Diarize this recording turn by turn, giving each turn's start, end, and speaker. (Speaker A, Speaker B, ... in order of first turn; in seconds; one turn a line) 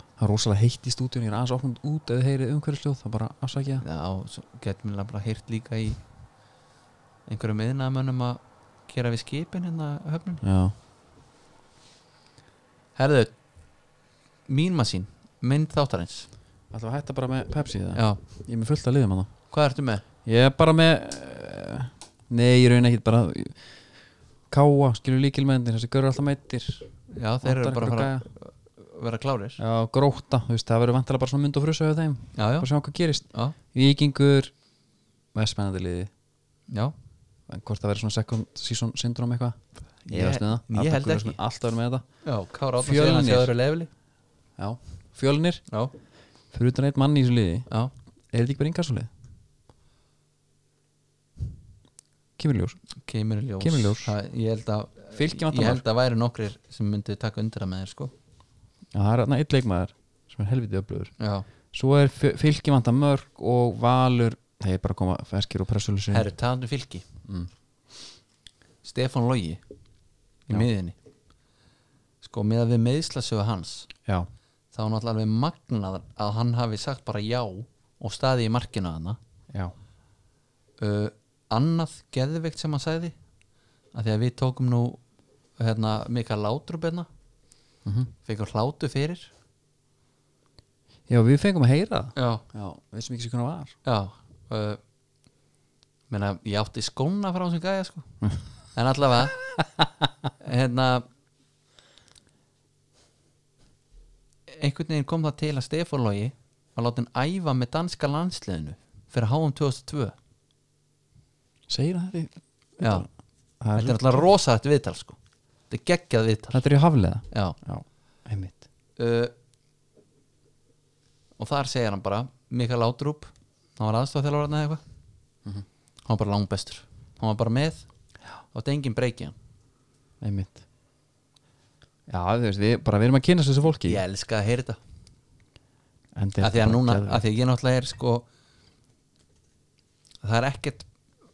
Speaker A: 0.2-3.8
Speaker B: 3.8-6.0
Speaker B: 7.3-10.4
Speaker A: 10.4-10.7
Speaker B: 12.9-13.3
Speaker B: 14.5-16.3
Speaker A: 16.7-19.3
Speaker B: 17.9-18.2
Speaker B: 19.5-20.0
Speaker A: 20.2-23.6
Speaker A: 24.5-26.9
Speaker B: 27.1-29.6
Speaker A: 27.4-28.3
Speaker A: 29.6-34.5
Speaker B: 32.4-32.7
Speaker A: 35.3-36.1
Speaker A: 37.5-39.6
Speaker B: 40.0-41.4
Speaker A: 40.1-42.0
Speaker B: 42.2-43.9
Speaker A: 42.8-43.5
Speaker A: 44.6-45.6
Speaker A: 46.5-47.7
Speaker A: 48.3-49.1
Speaker A: 52.4-52.8
Speaker B: 53.0-58.1
Speaker A: 53.6-54.1
Speaker A: 55.1-55.8
Speaker A: 58.9-61.1
Speaker B: 61.2-61.5
Speaker A: 61.7-66.3
Speaker B: 66.1-67.0
Speaker A: 67.2-67.5
Speaker B: 68.8-69.6
Speaker B: 70.5-70.9
Speaker B: 72.2-73.9
Speaker B: 74.7-79.2
Speaker B: 80.8-83.1
Speaker B: 83.9-85.0
Speaker B: 85.6-87.1
Speaker A: 87.8-88.1
Speaker B: 88.2-89.3
Speaker A: 91.1-93.7
Speaker B: 92.2-92.4
Speaker B: 93.8-94.8
Speaker B: 96.1-98.0
Speaker B: 98.7-99.4
Speaker B: 100.4-101.0
Speaker B: 104.5-110.1
Speaker A: 111.7-113.1
Speaker B: 112.8-113.0
Speaker A: 113.6-114.3
Speaker B: 113.8-115.2
Speaker B: 115.7-116.6
Speaker A: 116.5-118.6
Speaker B: 117.3-117.5
Speaker B: 119.0-119.3
Speaker B: 121.4-124.8
Speaker B: 126.0-127.8
Speaker B: 128.5-129.3
Speaker A: 130.2-130.6
Speaker A: 132.1-134.0
Speaker B: 133.8-134.8
Speaker A: 136.1-137.2
Speaker B: 136.4-138.2
Speaker B: 140.2-140.8